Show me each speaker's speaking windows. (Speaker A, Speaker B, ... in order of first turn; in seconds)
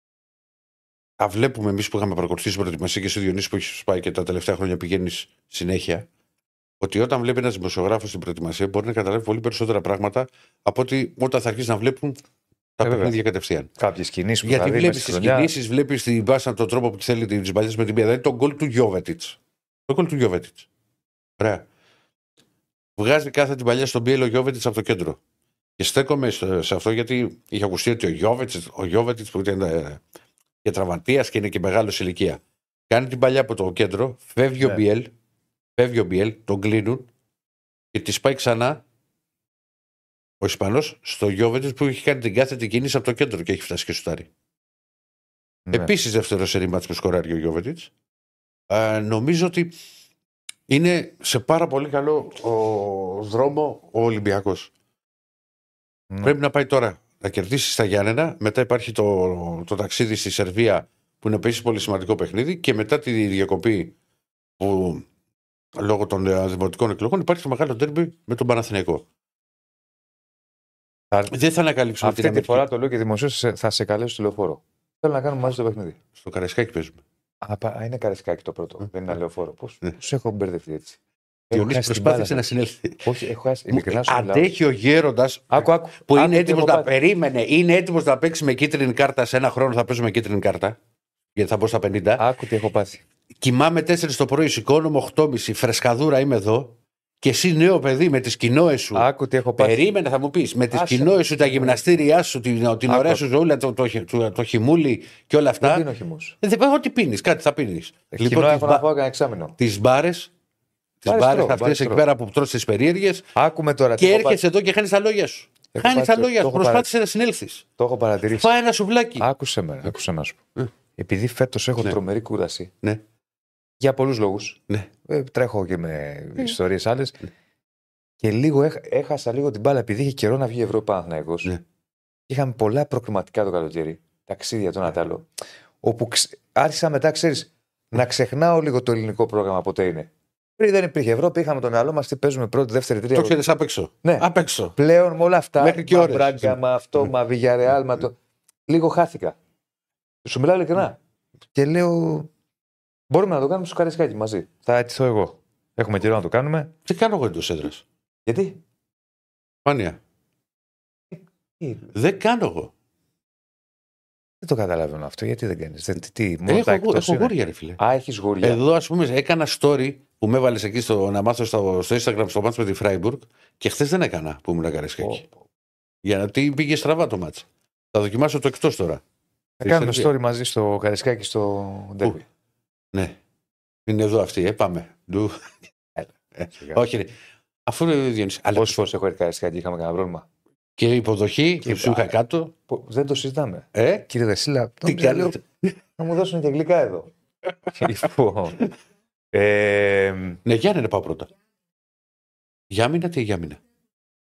Speaker A: 1.2-6.1, 6.8-12.2, 12.8-13.7, 14.4-20.6, 21.4-21.6, 23.0-25.2, 25.8-30.0, 30.6-35.1, 35.8-37.1, 37.9-38.8, 40.4-44.3, 45.7-47.9, 48.7-49.8, 50.7-54.7, 56.2-63.9, 64.6-65.0, 65.8-69.0, 71.3-72.6, 76.2-77.0, 81.5-83.2, 83.7-90.8, 91.3-92.2, 93.4-99.0, 99.6-105.9, 106.4-108.8, 109.6-110.3, 111.0-113.3, 114.0-117.6, 118.3-119.3, 143.1-144.8, 145.6-147.0, 156.8-157.8, 159.6-160.0, 161.9-162.7, 166.4-167.8, 168.4-175.2, 176.0-179.0, 179.6-180.1, 182.9-183.2, 183.9-185.6, 186.3-187.1, 187.7-188.8, 190.8-192.5, 193.7-194.1, 194.8-195.7, 200.4-201.3, 202.7-203.6
Speaker B: 12.8-13.1, 13.8-15.5, 45.7-45.9, 72.0-76.0, 77.4-81.0, 81.5-82.5, 83.0-84.5, 85.5-86.9, 92.2-93.0, 98.9-99.8, 100.7-101.8, 102.9-103.2, 105.6-106.3, 108.1-109.5, 111.1-112.0, 113.3-114.4, 115.7-116.9, 117.8-118.5, 119.2-120.4, 121.0-122.7, 123.8-127.2, 128.2-131.5, 132.3-135.2, 135.8-143.4, 144.0-148.1, 148.7-149.3, 150.2-151.0, 151.5-152.3, 153.1-156.7, 158.2-158.6, 161.1-161.9, 164.4-168.6, 179.6-182.2, 188.5-190.2, 191.6-192.1, 192.7-195.4, 196.0-197.1, 197.7-198.6, 199.3-200.4